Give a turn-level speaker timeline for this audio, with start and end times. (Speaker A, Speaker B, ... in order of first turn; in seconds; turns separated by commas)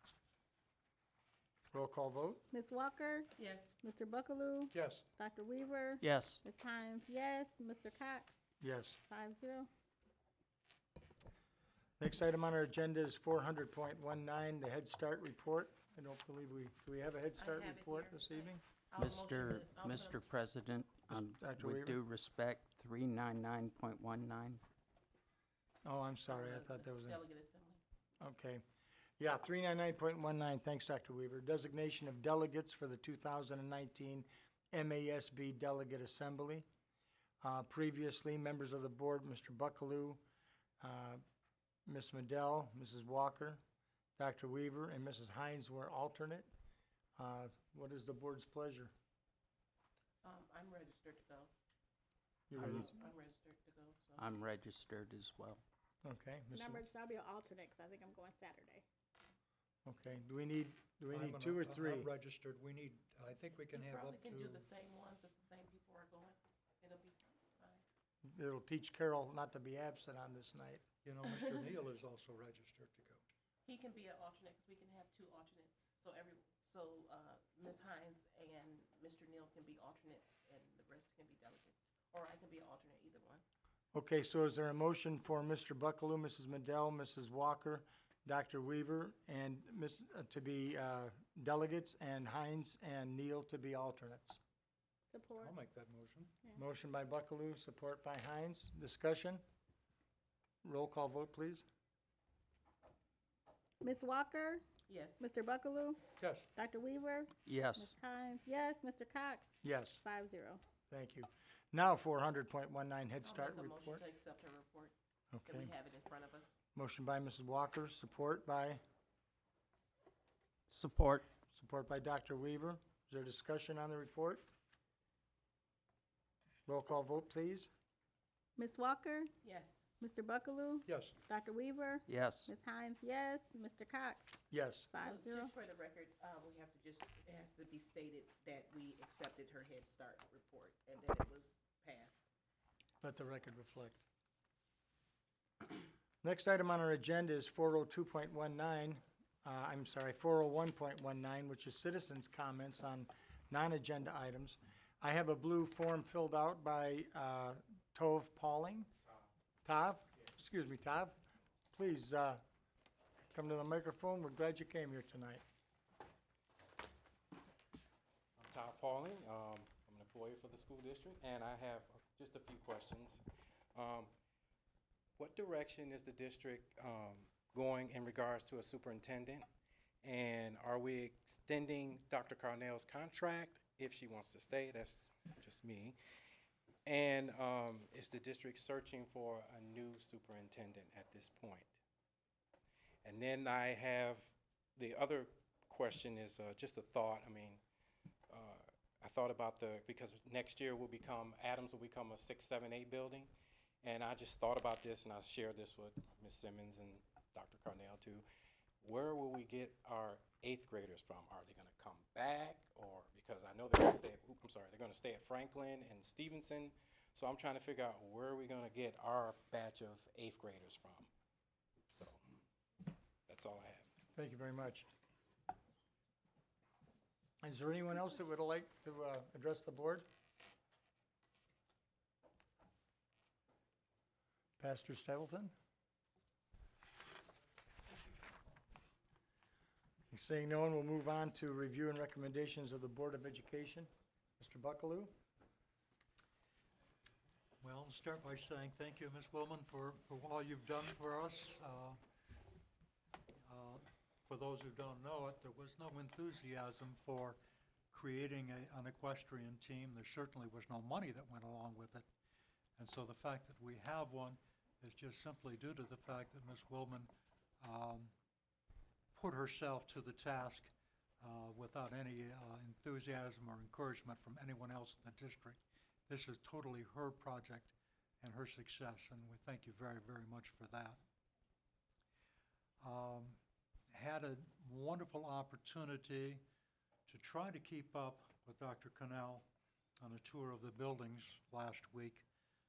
Speaker A: 1.7-2.4, Speaker B: 2.5-8.3, Speaker C: 3.4-3.8, Speaker D: 4.7-5.0, Speaker E: 6.0-6.4, Speaker A: 8.6-9.0, Speaker B: 9.1-9.7, Speaker A: 12.0-18.6, Speaker C: 17.4-20.2, Speaker E: 19.0-24.6, Speaker A: 21.1-22.0, Speaker A: 25.8-27.2, Speaker C: 26.3-27.8, Speaker A: 28.2-28.6, Speaker A: 29.2-36.6, Speaker A: 37.4-40.2, Speaker A: 40.8-41.2, Speaker A: 41.9-43.6, Speaker A: 44.2-46.5, Speaker A: 47.2-48.9, Speaker C: 50.2-51.5, Speaker A: 52.5-52.9, Speaker E: 52.6-52.9, Speaker C: 52.7-54.2, Speaker E: 54.2-55.6, Speaker A: 56.0-56.8, Speaker B: 56.5-58.8, Speaker A: 59.8-62.1, Speaker D: 61.1-64.7, Speaker C: 63.7-67.8, Speaker A: 68.2-70.8, Speaker D: 71.0-73.2, Speaker C: 71.2-71.7, Speaker C: 73.6-83.4, Speaker A: 83.9-94.4, Speaker B: 95.1-95.5, Speaker D: 95.4-96.3, Speaker A: 96.5-99.4, Speaker A: 100.6-101.6, Speaker B: 103.8-104.6, Speaker C: 104.9-105.2, Speaker B: 105.2-106.0, Speaker D: 106.2-106.5, Speaker B: 106.5-110.6, Speaker E: 107.4-107.9, Speaker A: 109.6-110.0, Speaker A: 110.9-114.0, Speaker C: 113.2-116.6, Speaker A: 115.3-115.7, Speaker A: 116.7-118.8, Speaker E: 120.7-121.2, Speaker A: 121.5-124.4, Speaker A: 126.7-127.7, Speaker B: 128.6-129.3, Speaker C: 129.4-129.8, Speaker B: 130.0-134.3, Speaker D: 130.8-131.2, Speaker E: 132.1-132.5, Speaker A: 134.5-134.9, Speaker B: 134.9-135.5, Speaker C: 135.0-142.3, Speaker A: 143.0-144.0, Speaker A: 146.2-158.9, Speaker A: 159.6-161.1, Speaker A: 161.7-162.4, Speaker A: 163.3-165.4, Speaker F: 168.4-173.2, Speaker F: 173.8-174.1, Speaker F: 175.2-179.4, Speaker F: 180.0-186.0, Speaker F: 186.9-191.7, Speaker F: 193.0-197.6, Speaker F: 198.3-203.3, Speaker F: 203.8-208.2, Speaker F: 208.8-221.1, Speaker F: 223.3-223.9, Speaker A: 224.1-224.9, Speaker A: 227.4-230.1, Speaker A: 234.6-235.5, Speaker A: 240.1-245.1, Speaker D: 247.6-252.0, Speaker D: 253.5-257.4, Speaker D: 257.9-262.1, Speaker D: 262.8-268.1, Speaker D: 269.1-281.0, Speaker D: 282.8-283.4, Speaker D: 283.9-286.4, Speaker D: 287.1-289.4, Speaker D: 290.0-292.2